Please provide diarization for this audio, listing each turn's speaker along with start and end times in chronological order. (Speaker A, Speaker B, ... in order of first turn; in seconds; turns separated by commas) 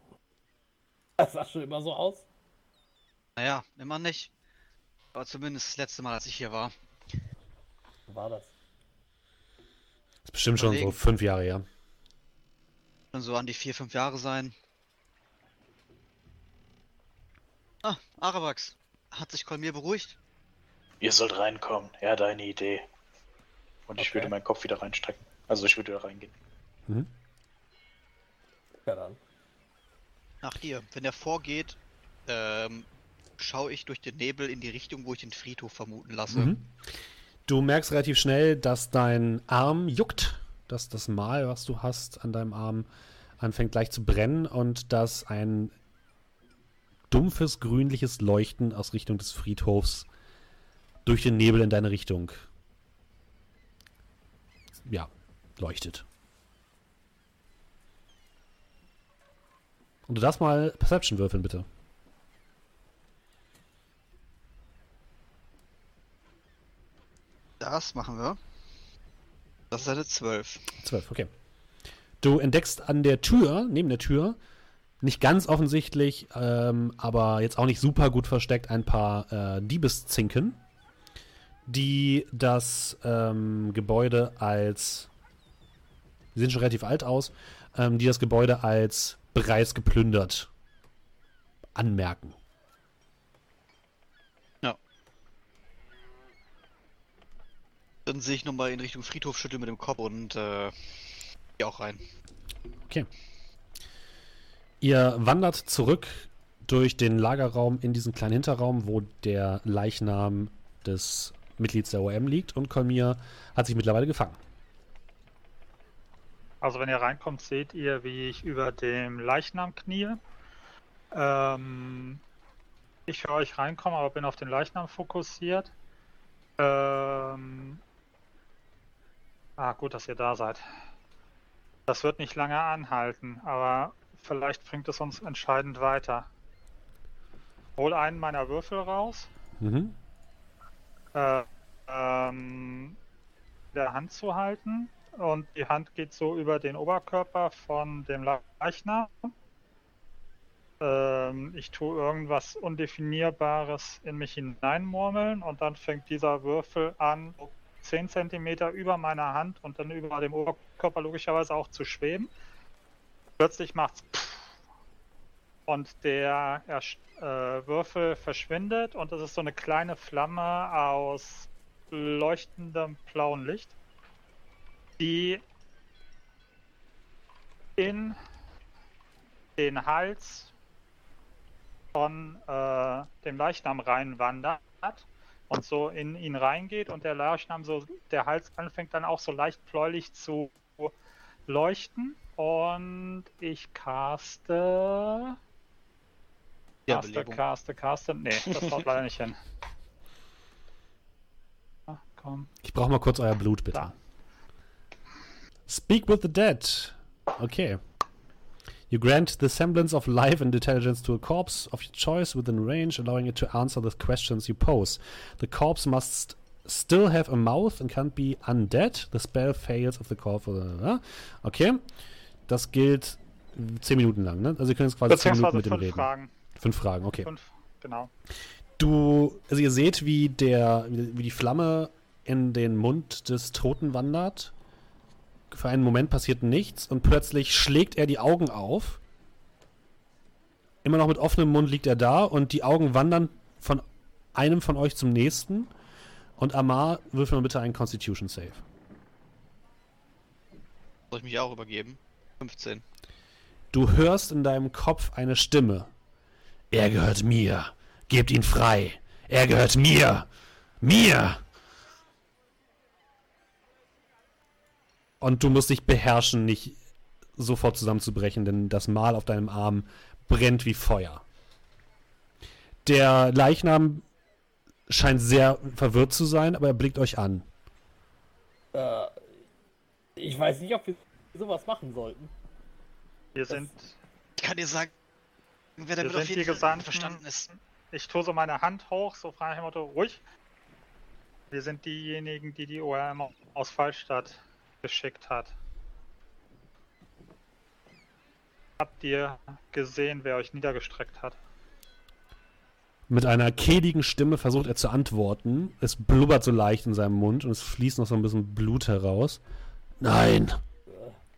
Speaker A: 1.2-2.2, Speaker B: 3.4-4.3, Speaker B: 5.1-6.7, Speaker A: 8.1-8.5, Speaker C: 10.2-11.6, Speaker B: 10.6-11.0, Speaker B: 13.1-14.5, Speaker B: 17.8-20.2, Speaker D: 21.0-22.9, Speaker D: 23.9-26.3, Speaker A: 24.0-24.3, Speaker A: 28.8-29.2, Speaker B: 30.4-32.9, Speaker B: 33.4-36.5, Speaker C: 36.3-36.7, Speaker C: 37.5-42.9, Speaker C: 43.4-45.8, Speaker C: 47.1-50.1, Speaker C: 51.0-52.5, Speaker C: 54.8-56.0, Speaker C: 60.1-61.6, Speaker B: 67.6-68.4, Speaker B: 69.7-70.7, Speaker C: 70.8-71.3, Speaker C: 72.2-74.4, Speaker C: 75.0-80.6, Speaker C: 81.7-85.1, Speaker C: 86.3-90.5, Speaker C: 91.7-92.3, Speaker B: 98.0-102.0, Speaker C: 104.8-114.4, Speaker E: 116.6-120.2, Speaker E: 121.1-122.2, Speaker E: 123.1-125.7, Speaker E: 126.6-127.8, Speaker E: 129.6-130.6, Speaker E: 131.9-136.3, Speaker E: 137.8-139.3, Speaker C: 139.6-139.9, Speaker E: 141.1-143.0, Speaker E: 143.7-149.3, Speaker E: 150.8-162.3, Speaker E: 163.4-164.5, Speaker E: 165.7-173.7, Speaker E: 175.0-175.4, Speaker E: 177.8-178.2, Speaker E: 179.6-180.5, Speaker E: 181.9-190.9, Speaker E: 191.5-195.4, Speaker B: 196.8-197.4, Speaker E: 196.9-199.4, Speaker E: 201.9-202.5, Speaker C: 202.6-203.9, Speaker C: 205.7-207.8, Speaker C: 208.9-221.8, Speaker C: 222.5-227.3, Speaker E: 225.1-226.3, Speaker E: 227.2-228.1, Speaker C: 228.8-234.5, Speaker C: 235.5-239.0, Speaker C: 240.8-245.7, Speaker C: 246.4-248.6, Speaker B: 251.1-252.8, Speaker C: 253.7-255.9, Speaker C: 256.7-260.3, Speaker C: 260.8-261.4, Speaker C: 265.2-266.8, Speaker C: 267.4-271.2, Speaker C: 272.8-274.0, Speaker C: 274.9-277.4, Speaker A: 278.7-279.2, Speaker A: 280.1-282.3, Speaker E: 283.3-283.9, Speaker B: 284.4-284.9, Speaker B: 285.8-287.5, Speaker E: 286.0-290.2, Speaker E: 291.5-295.5, Speaker E: 298.8-301.4, Speaker C: 303.1-309.4, Speaker C: 310.0-310.6